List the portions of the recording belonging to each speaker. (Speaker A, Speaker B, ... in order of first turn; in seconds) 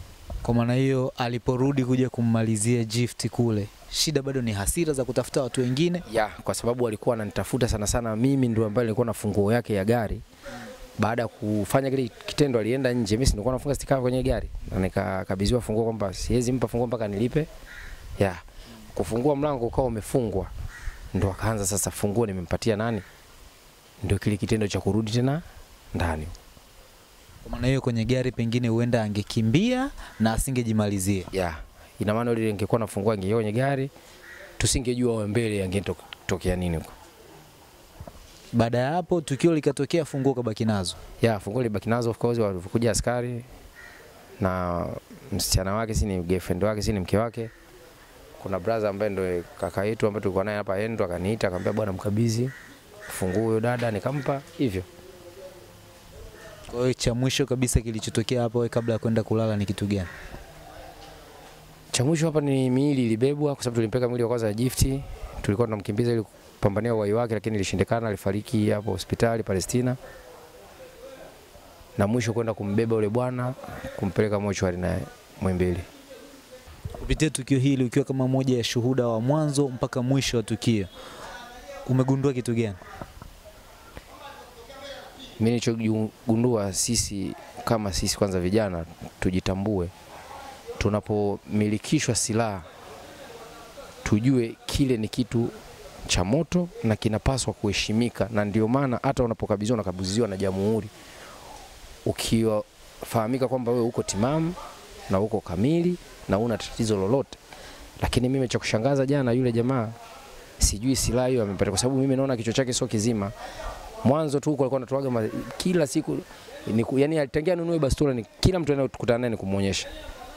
Speaker A: 0.4-6.0, 27.4-31.3, 38.5-41.0, 56.7-60.1, 77.0-80.9, 81.8-82.8
Speaker B: 6.1-10.2, 11.0-17.5, 18.9-20.5, 21.1-23.1, 24.0-26.3, 31.3-33.9, 34.6-36.9, 41.2-43.5, 44.4-47.5, 48.4-52.5, 53.1-54.9, 61.9-70.0, 72.0-75.9, 85.4-89.9, 90.8-92.7, 94.0-100.9, 102.0-107.4, 108.0-110.0, 110.6-113.3, 114.0-119.9